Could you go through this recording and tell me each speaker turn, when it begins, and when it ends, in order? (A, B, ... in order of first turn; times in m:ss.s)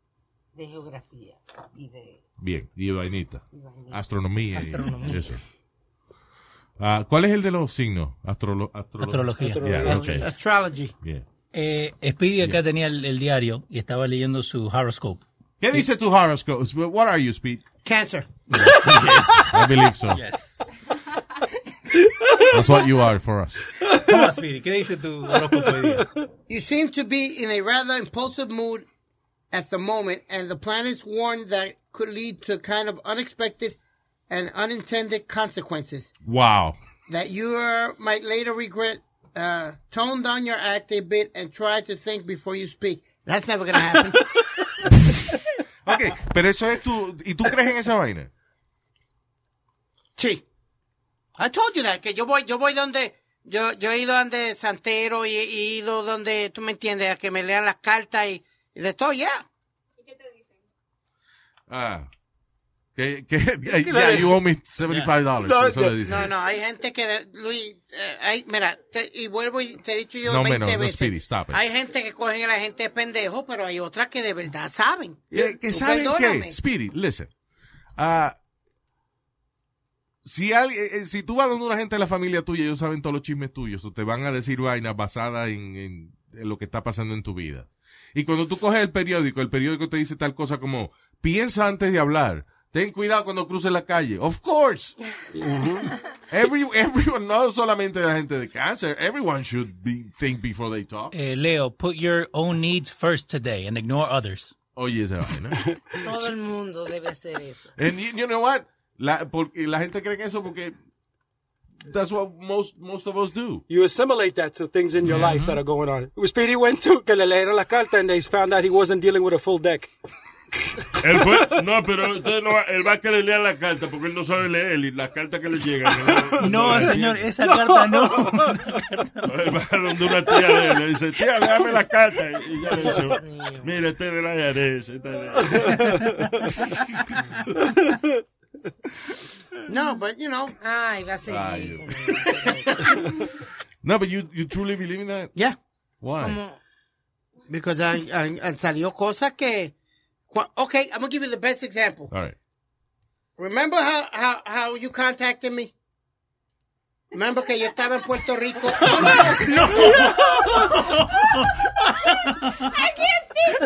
0:00.6-0:02.2 A
0:02.4-0:05.4 B
0:03.5-0:05.3 A
0:06.8-0:10.3 B
0:09.0-0:10.1 C
0:09.4-0:10.2 D
0:09.8-0:10.9 E
0:11.5-0:15.2 C
0:15.6-0:17.6 B
0:17.8-0:18.3 E
0:18.5-0:19.5 C
0:19.3-0:20.2 B
0:20.1-0:20.6 C
0:22.5-0:23.6 B
0:23.9-0:26.1 C
0:26.5-0:28.9 E
0:29.5-0:33.8 E
0:34.3-0:36.1 E
0:36.2-0:36.8 B
0:37.1-0:44.4 E
0:45.8-0:48.3 B
0:50.2-0:50.4 E
0:51.4-0:59.4 E
1:01.7-1:02.1 B
1:03.0-1:06.3 B
1:03.7-1:04.4 D
1:05.4-1:06.0 D
1:06.0-1:16.5 E
1:10.2-1:11.6 B
1:15.3-1:17.3 B
1:18.0-1:18.4 B
1:20.2-1:35.0 B
1:35.4-1:35.9 D
1:36.3-1:41.1 B
1:41.1-1:44.5 C
1:44.7-1:45.7 B
1:46.0-1:47.7 A
1:47.8-1:50.8 B
1:51.8-1:53.6 B
1:53.7-1:59.9 D
1:55.1-1:55.6 C
2:01.0-2:07.2 F
2:06.4-2:09.3 C
2:07.5-2:08.4 D
2:09.2-2:15.9 F
2:12.7-2:13.7 A
2:19.7-2:20.6 E
2:20.6-2:22.9 A
2:21.3-2:23.0 B
2:23.8-2:25.3 B
2:26.0-2:26.4 B
2:26.2-2:26.6 A
2:27.5-2:29.7 E
2:30.3-2:32.1 E
2:32.1-2:32.4 B
2:33.4-2:35.7 E
2:37.1-2:39.6 E
2:39.1-2:42.8 C